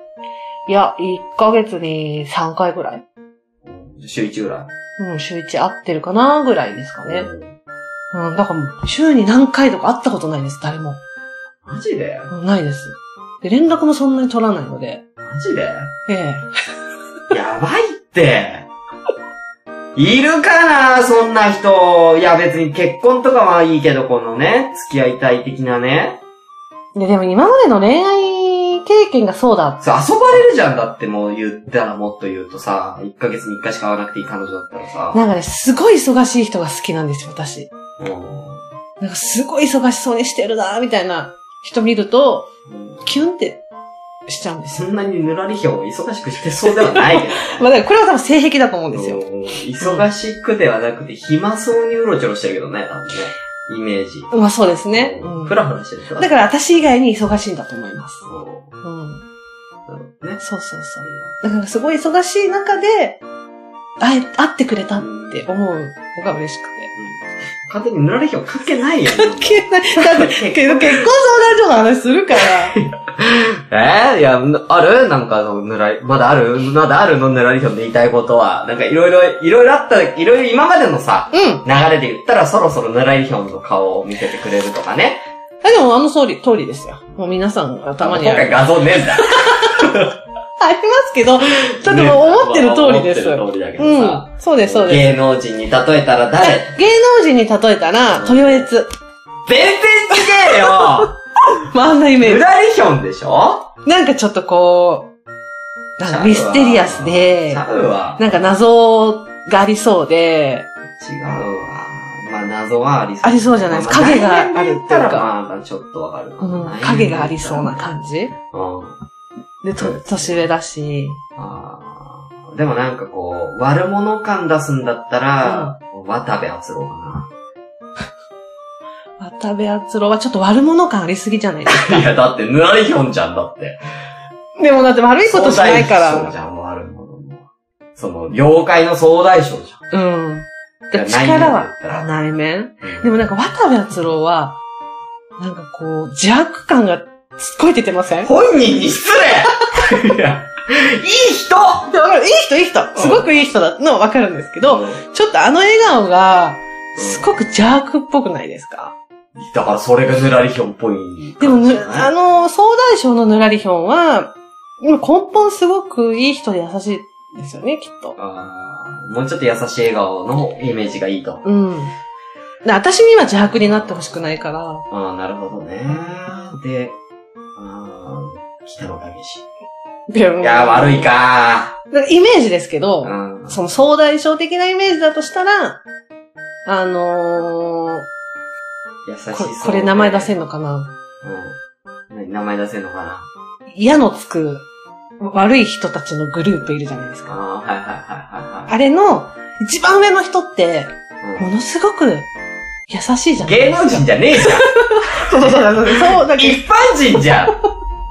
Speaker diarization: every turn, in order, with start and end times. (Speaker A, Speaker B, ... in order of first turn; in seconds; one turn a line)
Speaker A: 0.7-3.0
Speaker B: 3.6-4.7
Speaker A: 5.0-7.3
Speaker B: 7.0-7.5
Speaker A: 8.1-11.0
Speaker B: 11.7-12.3
Speaker A: 12.3-15.0
Speaker B: 15.2-15.9
Speaker A: 16.1-16.5
Speaker B: 17.3-18.7
Speaker B: 19.9-26.2
Speaker A: 26.9-29.8
Speaker B: 29.8-35.2
Speaker A: 35.1-37.7
Speaker B: 38.0-38.7
Speaker A: 39.0-42.5
Speaker B: 42.7-43.1
Speaker A: 43.0-43.6
Speaker A: 44.3-44.9
Speaker B: 44.7-47.7
Speaker A: 46.7-49.2
Speaker B: 48.9-54.3
Speaker A: 54.3-55.6
Speaker B: 55.0-56.4
Speaker A: 56.2-58.3
Speaker B: 58.3-58.7
Speaker A: 58.8-59.2
Speaker B: 59.9-60.4
Speaker A: 60.4-63.2
Speaker A: 64.0-66.9
Speaker B: 65.0-65.4
Speaker B: 67.0-71.1
Speaker A: 69.1-72.8
Speaker B: 72.4-85.2
Speaker A: 81.3-81.6
Speaker A: 85.6-89.8
Speaker B: 88.0-90.1
Speaker A: 90.6-95.2
Speaker B: 91.7-96.8
Speaker A: 96.4-98.9
Speaker B: 98.1-98.7
Speaker B: 99.5-101.2
Speaker A: 100.2-102.4
Speaker B: 102.2-103.7
Speaker A: 103.8-105.1
Speaker A: 106.0-107.6
Speaker B: 106.0-108.4
Speaker A: 108.2-110.7
Speaker B: 111.0-119.0
Speaker A: 113.2-115.3
Speaker A: 116.4-118.3
Speaker A: 119.6-121.2
Speaker B: 119.8-120.4
Speaker B: 121.4-127.3
Speaker A: 125.4-125.8
Speaker A: 129.2-132.1
Speaker B: 131.7-133.8
Speaker A: 134.6-136.3
Speaker B: 135.3-139.8
Speaker A: 139.9-144.6
Speaker B: 140.9-142.1
Speaker B: 142.8-143.1
Speaker A: 145.4-148.3
Speaker B: 148.2-151.9
Speaker A: 151.9-158.9
Speaker B: 152.9-153.3
Speaker B: 154.6-155.0
Speaker B: 157.0-157.3
Speaker B: 159.4-162.1
Speaker A: 161.4-168.2
Speaker B: 168.2-171.4
Speaker A: 171.4-171.9
Speaker A: 172.6-174.8
Speaker B: 173.4-174.1
Speaker B: 174.9-177.0
Speaker B: 177.6-179.5
Speaker A: 180.1-181.1
Speaker B: 180.4-181.8
Speaker A: 181.9-185.8
Speaker B: 183.0-183.6
Speaker A: 186.7-188.1
Speaker B: 189.1-190.3
Speaker A: 189.3-190.9
Speaker B: 191.2-191.6
Speaker B: 192.1-193.3
Speaker A: 193.7-194.7
Speaker A: 195.2-197.3
Speaker B: 197.3-198.7
Speaker A: 198.7-202.3
Speaker B: 201.2-201.5
Speaker A: 202.9-206.7
Speaker B: 203.4-207.6